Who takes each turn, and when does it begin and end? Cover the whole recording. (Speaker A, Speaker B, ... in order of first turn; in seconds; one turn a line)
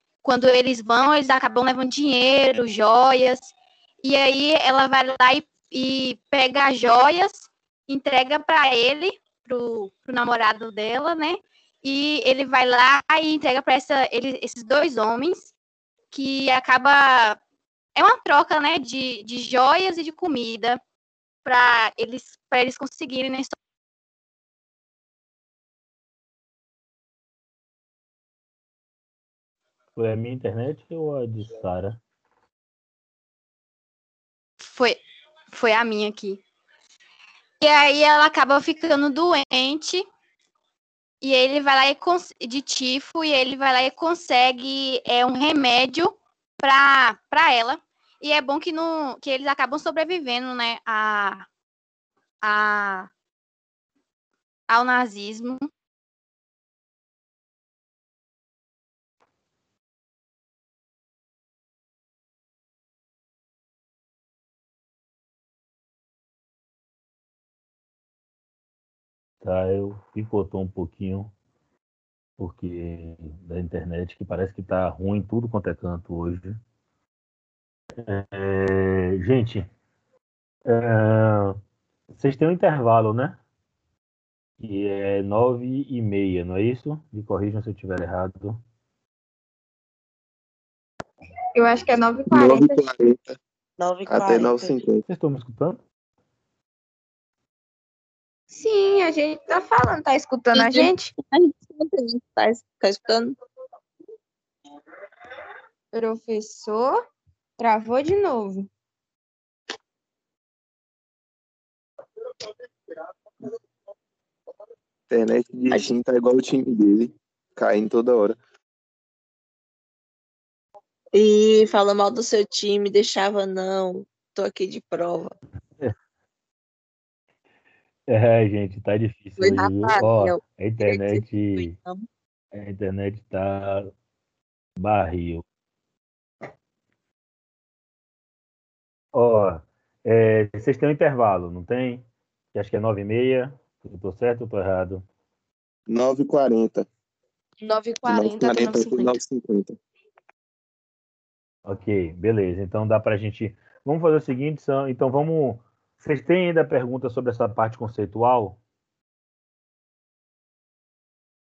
Speaker A: 0.2-15.5
Speaker A: 16.1-17.4
Speaker A: 17.9-20.8
Speaker A: 21.4-23.5
Speaker B: 29.9-32.0
Speaker A: 34.6-35.0
Speaker A: 35.5-36.4
Speaker A: 37.6-40.0
Speaker A: 41.2-51.5
Speaker A: 52.4-53.1
Speaker A: 54.7-55.6
Speaker B: 69.4-71.3
Speaker B: 72.4-76.6
Speaker B: 78.0-79.7
Speaker B: 80.7-81.6
Speaker B: 82.1-83.4
Speaker B: 84.6-88.6
Speaker C: 91.5-92.9
Speaker D: 92.3-93.4
Speaker E: 93.8-94.8
Speaker D: 94.1-95.0
Speaker B: 95.1-95.8
Speaker C: 98.5-101.1
Speaker E: 100.5-103.4
Speaker C: 105.9-107.0
Speaker C: 107.6-108.7
Speaker D: 115.1-118.4
Speaker E: 121.1-125.3
Speaker B: 128.1-131.7
Speaker E: 129.4-132.0
Speaker B: 132.5-133.9
Speaker B: 134.8-135.4
Speaker B: 139.1-145.0
Speaker D: 145.9-146.9
Speaker C: 147.6-149.2
Speaker D: 148.0-149.8
Speaker B: 151.7-158.6